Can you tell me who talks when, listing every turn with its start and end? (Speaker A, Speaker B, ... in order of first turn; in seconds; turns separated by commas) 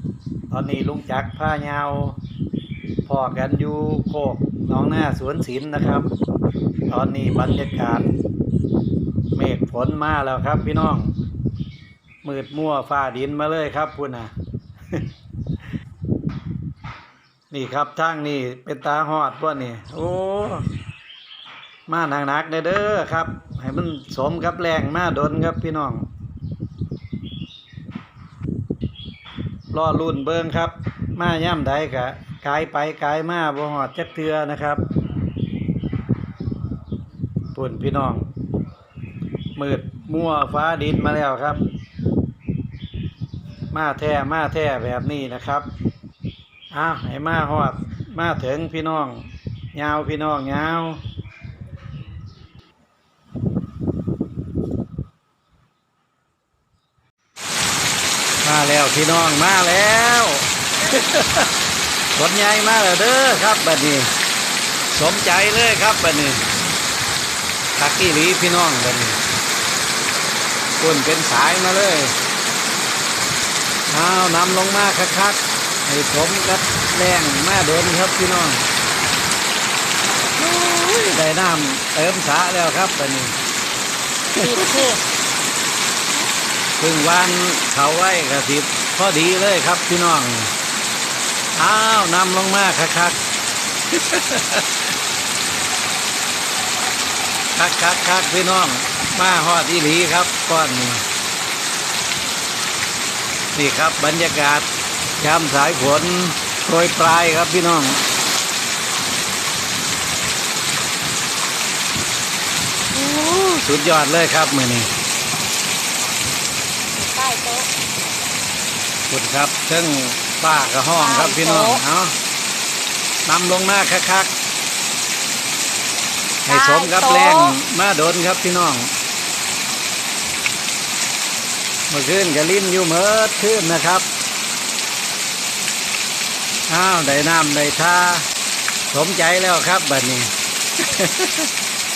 Speaker A: 0.5-2.2, Speaker A: 3.0-6.1, Speaker A: 6.9-8.1, Speaker A: 9.3-11.1, Speaker A: 12.2-14.3, Speaker A: 17.5-20.7, Speaker A: 21.9-26.1, Speaker A: 29.7-34.8, Speaker A: 37.5-38.3, Speaker A: 39.6-41.6, Speaker A: 43.7-45.7, Speaker A: 46.7-51.0, Speaker A: 58.4-61.5, Speaker A: 62.1-64.1, Speaker A: 64.9-66.4, Speaker A: 67.8-69.2, Speaker A: 70.8-72.2, Speaker A: 73.9-78.7, Speaker A: 80.4-83.4, Speaker B: 84.3-85.0, Speaker A: 84.4-84.8, Speaker A: 86.8-90.5, Speaker A: 91.6-93.2, Speaker A: 93.9-94.9, Speaker A: 97.5-101.0, Speaker A: 103.5-108.0, Speaker A: 112.9-114.9, Speaker B: 116.9-117.7, Speaker A: 119.1-122.2, Speaker B: 121.0-121.8, Speaker A: 123.3-124.3, Speaker A: 126.5-128.9, Speaker B: 126.5-127.6, Speaker A: 131.9-134.1, Speaker A: 136.7-138.3, Speaker A: 138.9-141.5